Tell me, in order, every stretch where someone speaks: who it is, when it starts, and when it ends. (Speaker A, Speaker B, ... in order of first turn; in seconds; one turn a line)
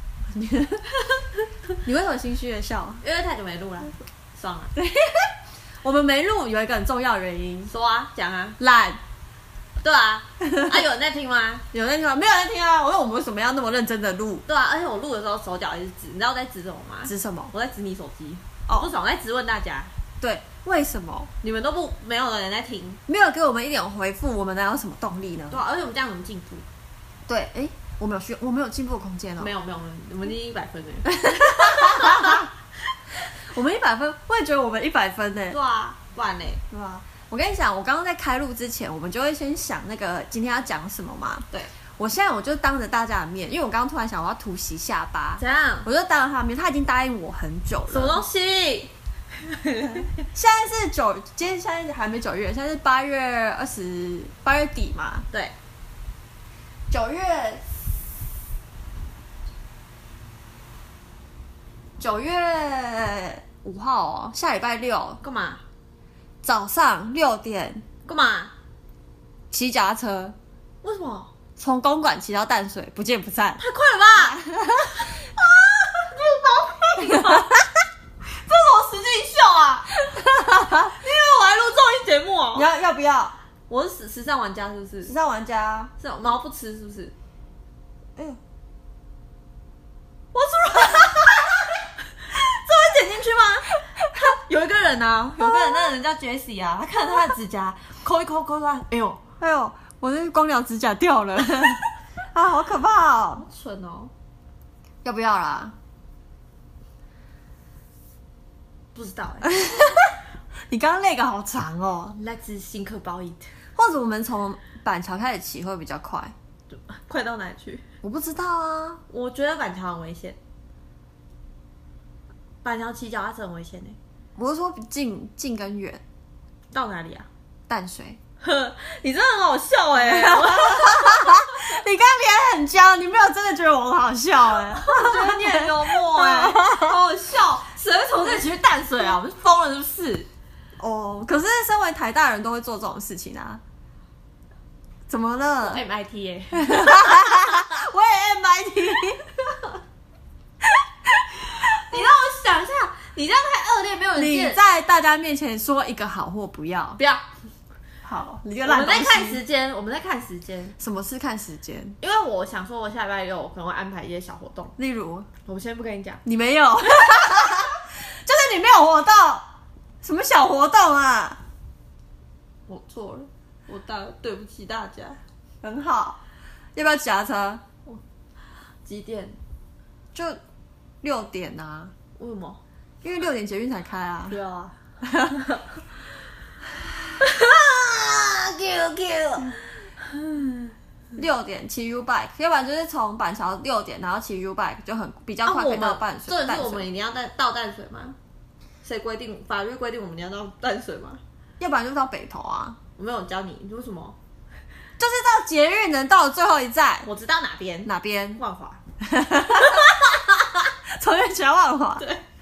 Speaker A: 0.3-0.8
Speaker A: 1.8-3.0
Speaker B: 3.0-4.7
Speaker A: 4.8-7.7
Speaker B: 7.7-8.6
Speaker A: 8.6-9.0
Speaker B: 9.8-11.7
Speaker A: 11.7-14.4
Speaker B: 14.5-19.9
Speaker A: 17.1-17.5
Speaker A: 20.2-21.3
Speaker B: 21.4-23.0
Speaker A: 23.1-25.6
Speaker B: 25.5-26.7
Speaker A: 27.3-29.5
Speaker B: 29.4-32.5
Speaker A: 31.1-32.5
Speaker A: 33.3-35.6
Speaker B: 35.5-36.6
Speaker A: 36.7-48.2
Speaker B: 45.4-45.9
Speaker B: 47.9-48.9
Speaker B: 49.5-50.1
Speaker A: 50.3-55.3
Speaker A: 56.9-57.6
Speaker A: 62.0-65.2
Speaker B: 65.2-65.6
Speaker A: 66.4-67.8
Speaker B: 68.0-68.5
Speaker A: 69.5-70.4
Speaker B: 70.8-71.3
Speaker A: 71.6-73.6
Speaker B: 73.6-74.4
Speaker A: 74.2-75.1
Speaker B: 75.4-77.5
Speaker A: 77.1-77.6
Speaker B: 78.3-80.0
Speaker A: 80.3-80.9
Speaker B: 80.9-82.7
Speaker A: 82.5-83.3
Speaker B: 83.7-85.1
Speaker A: 85.1-85.9
Speaker B: 86.0-87.1
Speaker B: 90.3-91.6
Speaker B: 92.2-99.2
Speaker A: 95.4-95.9
Speaker A: 99.4-103.5
Speaker B: 103.4-104.1
Speaker A: 105.0-105.8
Speaker B: 109.0-109.7
Speaker A: 109.4-110.1
Speaker A: 110.7-112.2
Speaker B: 112.2-113.5
Speaker A: 113.8-116.3
Speaker B: 116.7-117.8
Speaker A: 118.0-119.0
Speaker B: 119.1-120.4
Speaker B: 122.6-124.0
Speaker A: 124.4-126.0
Speaker B: 126.7-127.3
Speaker A: 127.7-128.2
Speaker B: 128.4-131.6
Speaker A: 130.0-137.0
Speaker B: 134.7-140.3
Speaker A: 140.8-143.6
Speaker A: 145.1-145.8
Speaker B: 145.7-147.5
Speaker A: 146.5-149.3
Speaker B: 151.6-154.6
Speaker A: 154.2-157.0
Speaker B: 157.0-157.2
Speaker A: 158.0-159.4
Speaker B: 158.6-160.8
Speaker A: 160.8-162.0
Speaker B: 162.0-164.8
Speaker A: 164.8-165.3
Speaker B: 165.5-166.2
Speaker A: 166.2-169.5
Speaker A: 170.0-171.4
Speaker B: 172.7-175.2
Speaker A: 175.6-176.2
Speaker A: 176.8-177.7
Speaker B: 178.8-179.4
Speaker A: 181.0-181.9
Speaker B: 182.2-182.6
Speaker A: 183.0-184.4
Speaker B: 184.3-184.7
Speaker A: 185.0-185.6
Speaker B: 187.2-189.6
Speaker A: 191.2-196.9
Speaker B: 195.4-198.2
Speaker B: 198.8-201.2
Speaker A: 201.6-202.8
Speaker B: 203.0-204.2
Speaker A: 205.0-207.1
Speaker B: 207.1-208.8
Speaker A: 207.9-208.4
Speaker A: 209.0-210.2
Speaker B: 209.6-210.2
Speaker A: 210.9-212.1